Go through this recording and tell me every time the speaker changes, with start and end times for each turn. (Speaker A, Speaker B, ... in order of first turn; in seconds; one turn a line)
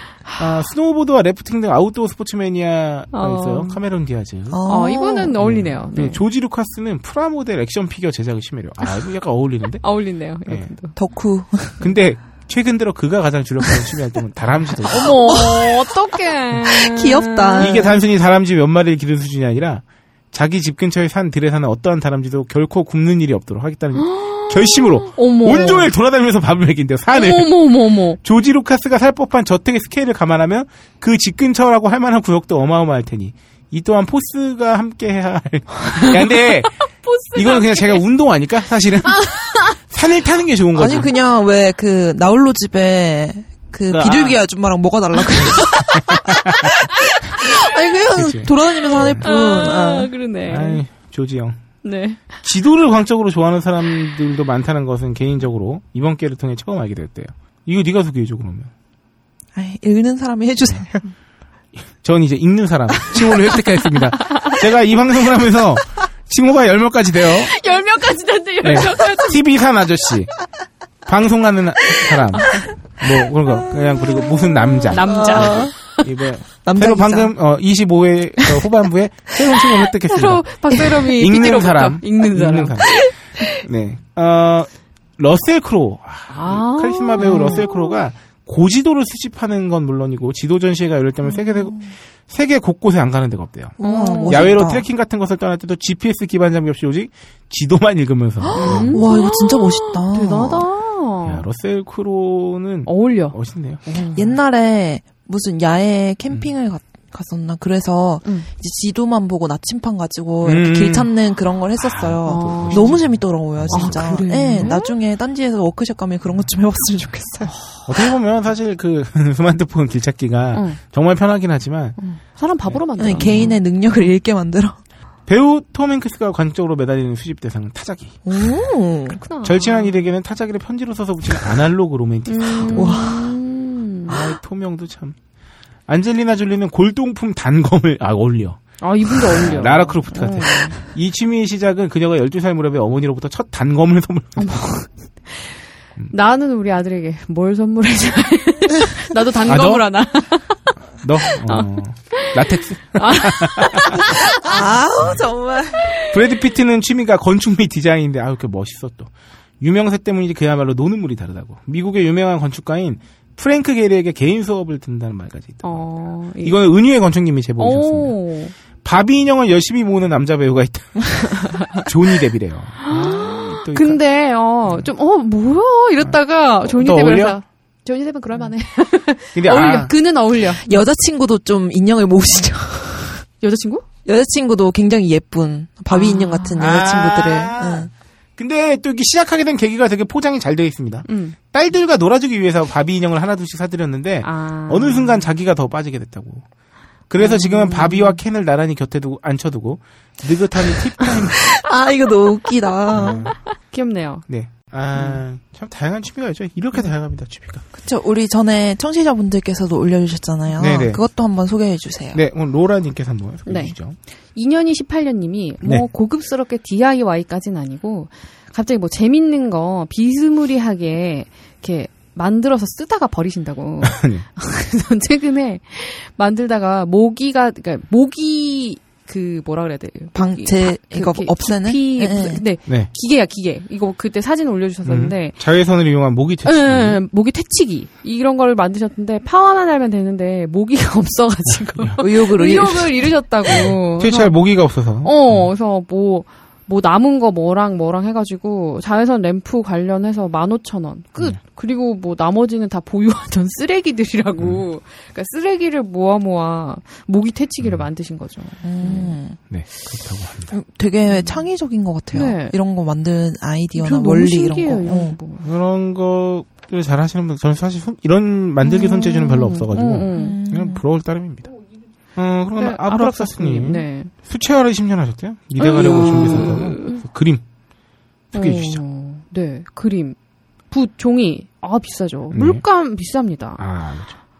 Speaker A: 0.4-4.6
Speaker B: 3.1-3.8
Speaker C: 4.5-5.3
Speaker B: 4.7-6.2
Speaker A: 5.4-9.8
Speaker B: 9.8-10.9
Speaker A: 10.5-10.7
Speaker C: 10.9-11.9
Speaker A: 11.8-15.4
Speaker B: 14.9-17.9
Speaker C: 15.0-15.7
Speaker C: 16.6-18.0
Speaker A: 17.6-27.7
Speaker B: 23.9-25.9
Speaker B: 27.1-28.2
Speaker A: 28.2-41.1
Speaker B: 37.0-38.0
Speaker B: 39.2-39.7
Speaker C: 40.8-50.1
Speaker A: 43.9-44.4
Speaker A: 45.4-46.7
Speaker A: 48.1-49.2
Speaker B: 49.2-50.8
Speaker A: 50.5-51.6
Speaker B: 51.8-52.3
Speaker A: 52.4-58.7
Speaker C: 59.5-61.1
Speaker A: 61.9-67.5
Speaker B: 67.4-69.4
Speaker A: 68.6-70.4
Speaker A: 71.1-99.0
Speaker B: 74.9-75.8
Speaker C: 75.1-75.7
Speaker C: 76.6-77.3
Speaker B: 80.1-83.1
Speaker B: 86.3-87.9
Speaker C: 87.2-87.7
Speaker C: 91.2-91.9
Speaker C: 93.8-94.9
Speaker B: 93.8-94.5
Speaker C: 98.5-100.7
Speaker B: 98.5-101.4
Speaker A: 101.2-104.3
Speaker B: 102.9-103.4
Speaker B: 103.9-104.2
Speaker C: 104.1-117.5
Speaker A: 110.4-111.1
Speaker A: 111.8-114.7
Speaker B: 112.2-113.0
Speaker B: 113.7-115.0
Speaker B: 117.5-117.9
Speaker A: 117.9-122.0
Speaker B: 122.0-123.6
Speaker A: 122.7-123.5
Speaker C: 123.0-124.8
Speaker A: 125.3-128.2
Speaker C: 128.3-129.2
Speaker B: 129.1-130.0
Speaker A: 129.4-133.0
Speaker B: 132.3-134.2
Speaker C: 132.7-133.1
Speaker A: 134.1-135.2
Speaker A: 135.9-144.7
Speaker B: 138.8-140.8
Speaker B: 144.4-145.6
Speaker B: 146.1-150.7
Speaker A: 149.5-149.8
Speaker A: 151.0-154.1
Speaker B: 151.4-154.6
Speaker C: 154.4-155.9
Speaker A: 156.1-159.1
Speaker A: 159.6-168.2
Speaker B: 165.6-166.6
Speaker B: 167.6-168.5
Speaker A: 168.8-174.0
Speaker B: 171.4-171.9
Speaker B: 172.8-180.8
Speaker A: 176.0-177.4
Speaker A: 179.3-179.9
Speaker C: 180.6-183.2
Speaker B: 183.4-183.8
Speaker C: 184.1-187.9
Speaker B: 185.9-186.6
Speaker A: 186.6-196.4
Speaker B: 191.1-191.4
Speaker B: 194.2-195.3
Speaker A: 197.1-201.5
Speaker B: 197.2-198.2
Speaker C: 201.5-203.3
Speaker A: 202.9-203.3
Speaker B: 203.6-204.2
Speaker A: 204.3-207.7
Speaker C: 207.8-212.2
Speaker A: 210.6-211.0
Speaker A: 212.1-214.0
Speaker B: 213.5-213.7
Speaker B: 214.3-235.4
Speaker A: 223.8-224.2
Speaker C: 230.2-232.4
Speaker A: 234.9-237.0
Speaker B: 236.4-244.4
Speaker C: 242.0-243.0
Speaker A: 243.5-245.5
Speaker B: 245.0-259.2
Speaker A: 254.4-254.6
Speaker C: 258.6-259.4
Speaker A: 259.5-260.6
Speaker C: 260.5-265.2
Speaker B: 261.1-261.4
Speaker B: 262.1-262.6
Speaker B: 263.8-265.4
Speaker A: 265.4-271.5
Speaker B: 268.6-270.4
Speaker C: 270.1-270.8
Speaker A: 272.2-277.4
Speaker B: 272.6-274.1
Speaker B: 275.6-277.0
Speaker C: 276.0-276.5
Speaker A: 278.3-278.8
Speaker B: 278.3-280.2
Speaker B: 280.7-283.6
Speaker A: 282.3-282.6
Speaker A: 283.6-284.2